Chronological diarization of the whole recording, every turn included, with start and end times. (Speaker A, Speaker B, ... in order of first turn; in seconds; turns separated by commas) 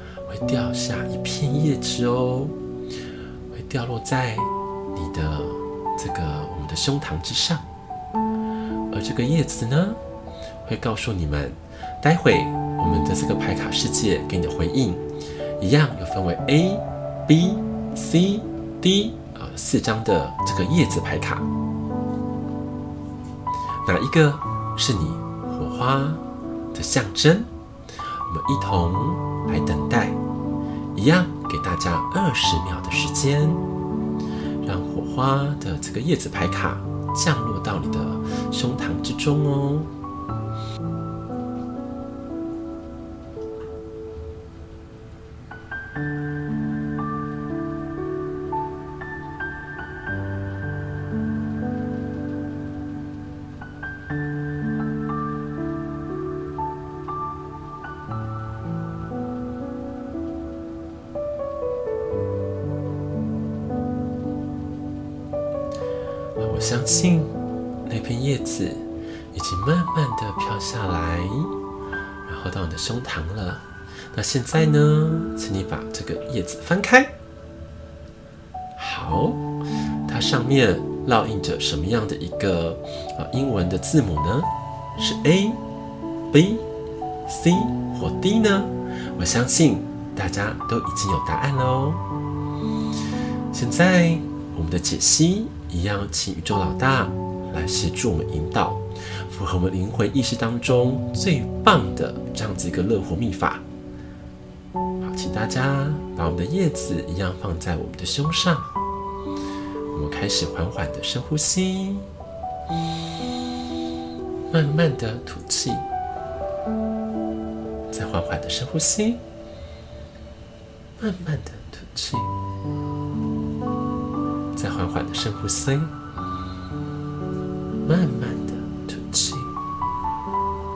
Speaker A: 0.3-2.5, Speaker A: 3.5-7.7, Speaker A: 8.9-10.0, Speaker A: 10.6-15.0, Speaker A: 15.6-21.4, Speaker A: 23.8-26.2, Speaker A: 26.7-27.5, Speaker A: 28.2-30.2, Speaker A: 30.9-33.6, Speaker A: 34.6-39.9, Speaker A: 66.4-67.3, Speaker A: 67.9-71.5, Speaker A: 72.2-77.1, Speaker A: 78.8-79.4, Speaker A: 80.1-85.6, Speaker A: 86.3-86.6, Speaker A: 87.3-92.0, Speaker A: 93.5-103.6, Speaker A: 105.0-108.7, Speaker A: 109.9-112.1, Speaker A: 114.5-115.8, Speaker A: 117.9-119.2, Speaker A: 121.0-122.3, Speaker A: 124.5-125.9, Speaker A: 127.8-129.5